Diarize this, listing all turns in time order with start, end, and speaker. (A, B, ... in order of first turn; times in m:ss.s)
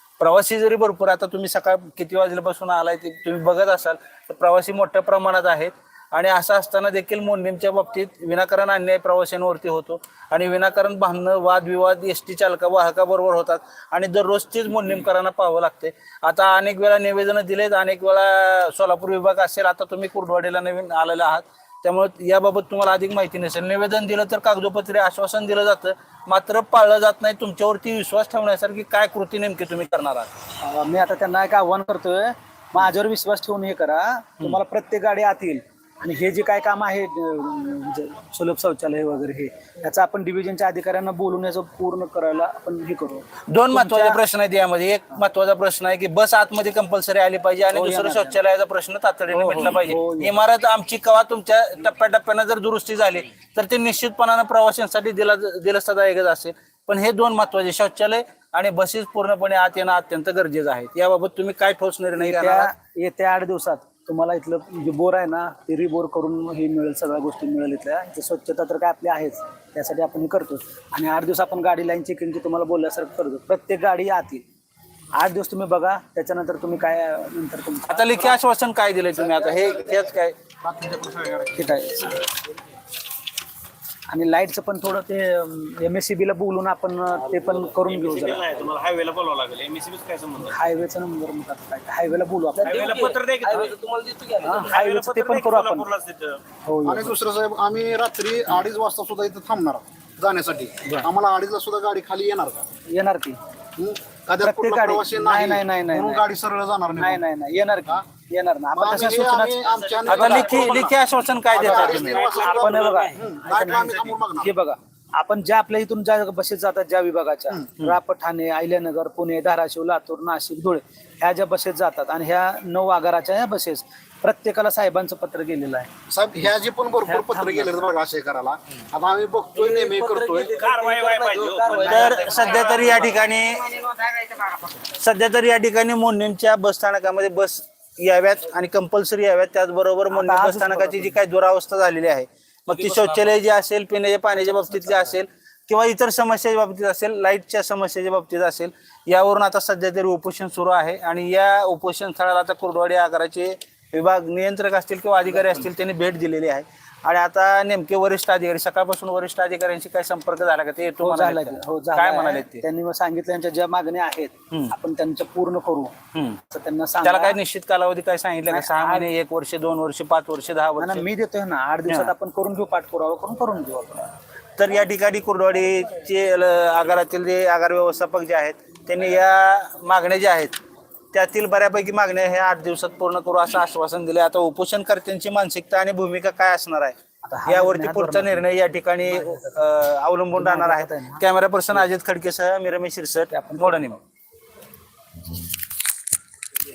0:00.2-0:30.3 A
0:30.6-0:44.2 B
0:43.5-1:02.7 A
0:47.7-0:48.4 B
0:49.3-0:50.4 B
1:02.2-1:14.4 B
1:15.2-1:18.4 B
1:17.9-1:20.4 A
1:20.6-1:21.6 C
1:21.5-1:22.3 B
1:24.1-1:28.8 B
1:27.3-1:30.6 D
1:30.4-1:33.7 B
1:32.6-1:36.4 D
1:34.4-1:35.9 B
1:36.6-1:37.2 B
1:36.8-1:42.6 C
1:42.9-1:43.4 B
1:43.8-1:47.2 C
1:44.4-1:46.3 B
1:47.0-1:49.6 B
1:48.7-1:51.0 C
1:49.9-1:50.6 D
1:50.1-1:52.2 A
1:51.5-1:54.5 C
1:51.6-2:05.9 B
1:52.1-1:53.1 D
2:06.1-2:10.5 C
2:07.0-2:07.8 B
2:09.6-2:13.0 B
2:10.1-2:12.9 D
2:11.8-2:42.6 A
2:20.1-2:21.1 B
2:41.0-2:45.9 B
2:46.1-2:46.4 A
2:46.5-2:47.4 B
2:47.0-2:51.0 A
2:48.5-2:49.1 B
2:50.8-2:54.1 B
2:54.6-3:00.6 A
3:01.1-3:14.0 A
3:07.2-3:08.4 B
3:09.1-3:09.6 B
3:10.4-3:11.2 B
3:13.3-3:13.9 B